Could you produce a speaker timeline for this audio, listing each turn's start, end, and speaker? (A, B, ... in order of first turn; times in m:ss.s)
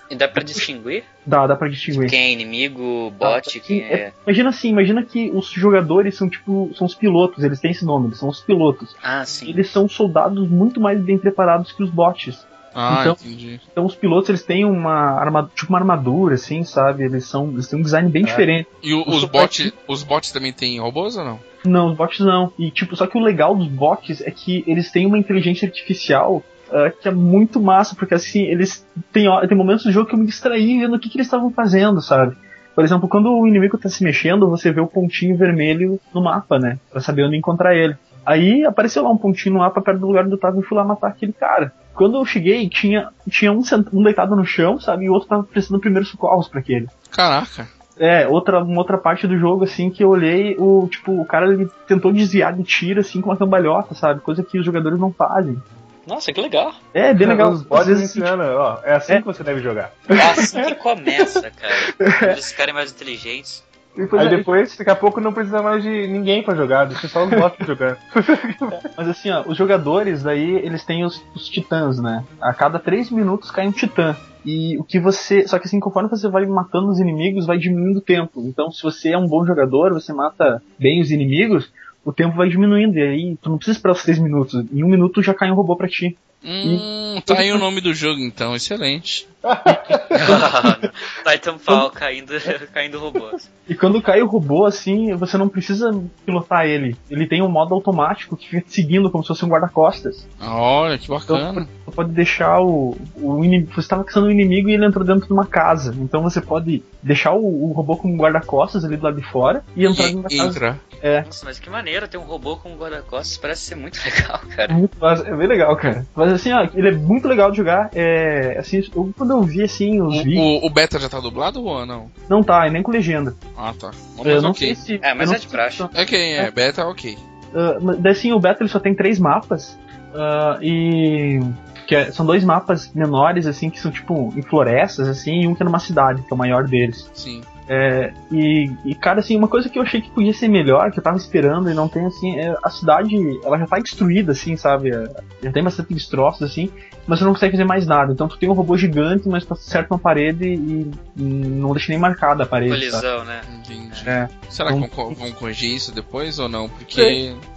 0:00.1-0:01.0 A
0:00.3-0:00.6 B
0:01.2-0:02.2 B
0:01.9-0:04.1 A
0:03.2-0:13.2 B
0:09.0-0:09.6 A
0:12.7-0:13.6 C
0:13.7-0:19.7 B
0:18.8-0:21.4 C
0:21.6-0:46.9 B
0:47.1-0:47.7 C
0:48.0-0:55.6 B
0:56.1-0:56.8 A
0:56.9-0:58.3 B
0:57.2-1:00.7 D
1:00.1-1:02.4 B
1:00.1-1:03.6 A
1:04.0-1:04.7 B
1:04.1-1:08.8 D
1:07.3-1:07.6 B
1:08.8-1:27.6 B
1:26.4-1:29.2 C
1:29.4-1:30.4 D
1:29.7-1:30.7 B
1:30.1-1:33.4 A
1:33.7-1:40.2 B
1:40.4-1:41.7 C
1:41.3-1:51.3 B
1:49.8-1:50.8 C
1:51.2-1:54.8 A
1:54.7-2:00.5 B
2:00.1-2:02.1 C
2:02.3-2:03.4 B
2:03.6-2:04.8 C
2:04.2-2:06.5 B
2:04.3-2:05.9 A
2:05.9-2:07.2 C
2:07.5-2:17.0 B
2:17.1-2:17.5 C
2:17.7-2:33.0 B
2:32.7-2:34.1 A
2:33.5-2:37.4 C
2:34.0-2:35.2 B
2:36.9-2:37.2 B